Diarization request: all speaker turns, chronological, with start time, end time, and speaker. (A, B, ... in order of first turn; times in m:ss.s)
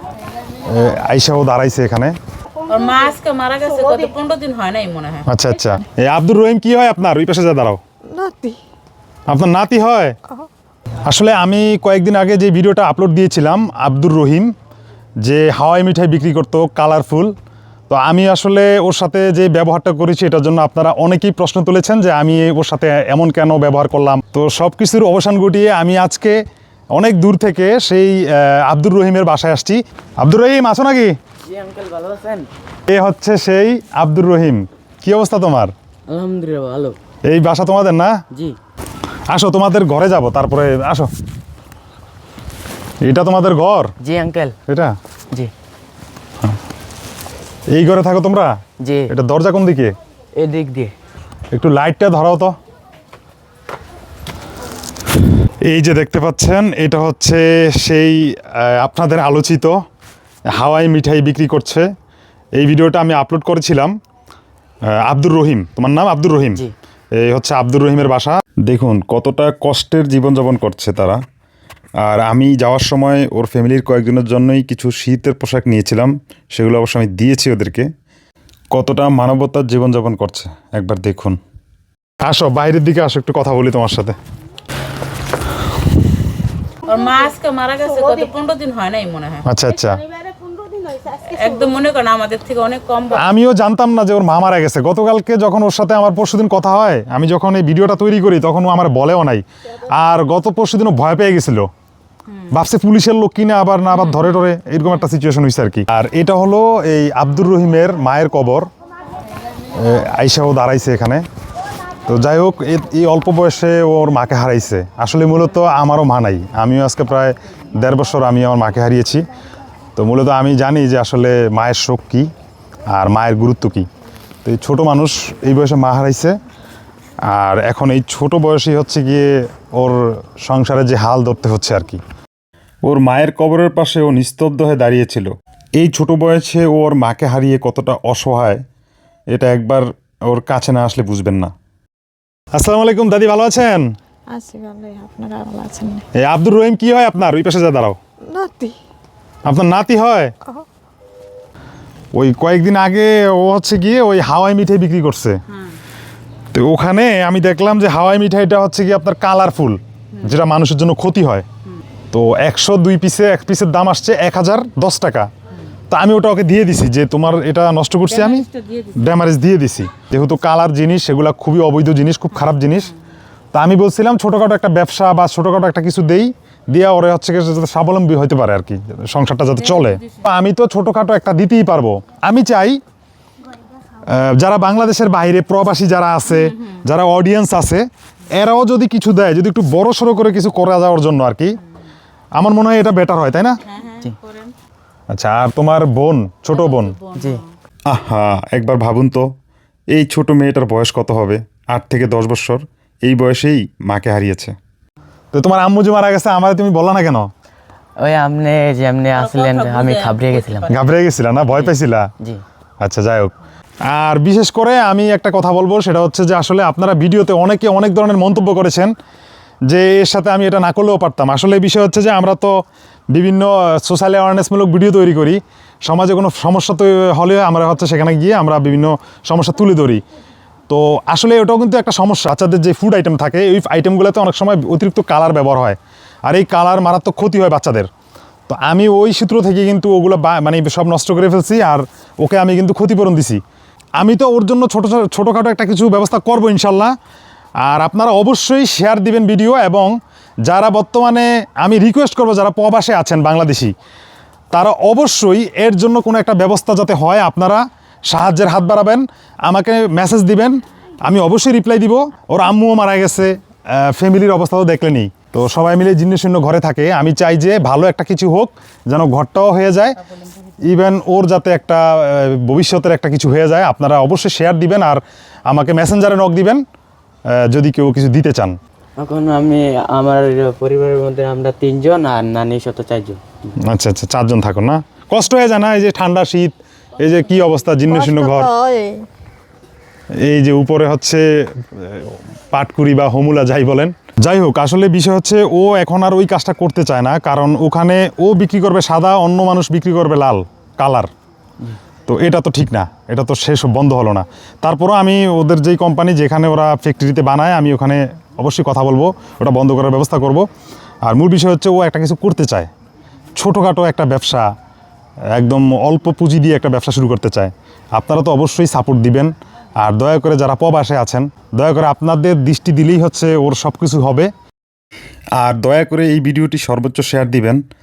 0:00.6-0:02.1 A
0:02.7-0:05.3 B
0:05.2-0:07.8 A
0:08.1-0:08.6 C
0:09.3-0:10.2 A
0:11.0-0:14.5 A
0:15.2-0:17.3 A
0:17.9-0:26.4 A
0:26.9-0:31.2 A
0:31.4-0:32.5 D
0:32.9-0:35.7 A
0:36.1-0:37.0 D
0:37.3-0:38.2 A
0:38.3-0:38.6 D
0:39.3-0:41.1 A
0:43.0-0:43.9 A
0:44.0-0:44.6 D
0:44.7-0:44.9 A
0:47.7-0:48.5 A
0:48.8-0:49.1 D
0:49.1-0:49.9 A
0:50.4-0:50.9 D
0:51.5-0:52.5 A
0:55.6-0:59.8 A
1:00.5-1:01.9 A
1:02.6-1:03.9 A
1:04.9-1:06.6 A
1:07.2-1:11.2 A
1:12.0-1:17.9 A
1:18.7-1:21.4 A
1:22.2-1:24.2 A
1:26.8-1:29.4 B
1:29.4-1:30.0 A
1:31.1-1:33.2 B
1:33.1-1:41.7 A
1:42.5-1:48.7 A
1:49.7-1:51.2 A
1:52.1-1:59.2 A
2:00.0-2:02.3 A
2:02.9-2:03.8 A
2:04.4-2:06.3 A
2:07.3-2:12.0 A
2:12.8-2:18.6 A
2:19.3-2:21.5 A
2:22.5-2:23.9 A
2:24.3-2:26.0 C
2:26.1-2:28.0 A
2:28.3-2:28.8 C
2:29.4-2:30.3 A
2:32.1-2:35.4 A
2:36.5-2:41.4 A
2:42.1-2:45.3 A
2:45.9-2:52.9 A
2:48.2-2:48.9 B
2:53.5-3:02.8 A
3:04.0-3:11.6 A
3:06.3-3:06.8 B
3:12.4-3:13.6 A
3:13.6-3:14.5 B
3:15.1-3:17.0 A
3:16.5-3:17.4 B
3:17.2-3:17.4 D
3:17.9-3:19.3 A
3:19.9-3:24.5 A
3:25.3-3:27.3 A
3:28.0-3:30.7 D
3:29.1-3:30.7 B
3:30.7-3:32.1 A
3:31.5-3:32.4 D
3:32.8-3:33.3 A
3:33.8-3:38.9 A
3:39.7-3:42.6 A
3:43.1-3:50.0 A
3:50.7-3:57.9 A
3:58.5-4:03.4 A
4:04.0-4:06.9 A
4:07.6-4:09.9 A
4:10.4-4:13.7 A
4:14.5-4:30.0 A
4:30.6-4:36.6 A
4:37.3-4:38.6 A
4:39.0-4:43.5 D
4:43.6-4:48.5 A
4:47.9-4:49.0 C
4:50.2-5:01.1 A
5:02.1-5:10.5 A
5:11.0-5:12.7 A
5:13.4-5:14.5 A
5:15.3-5:24.3 A
5:25.4-5:27.6 A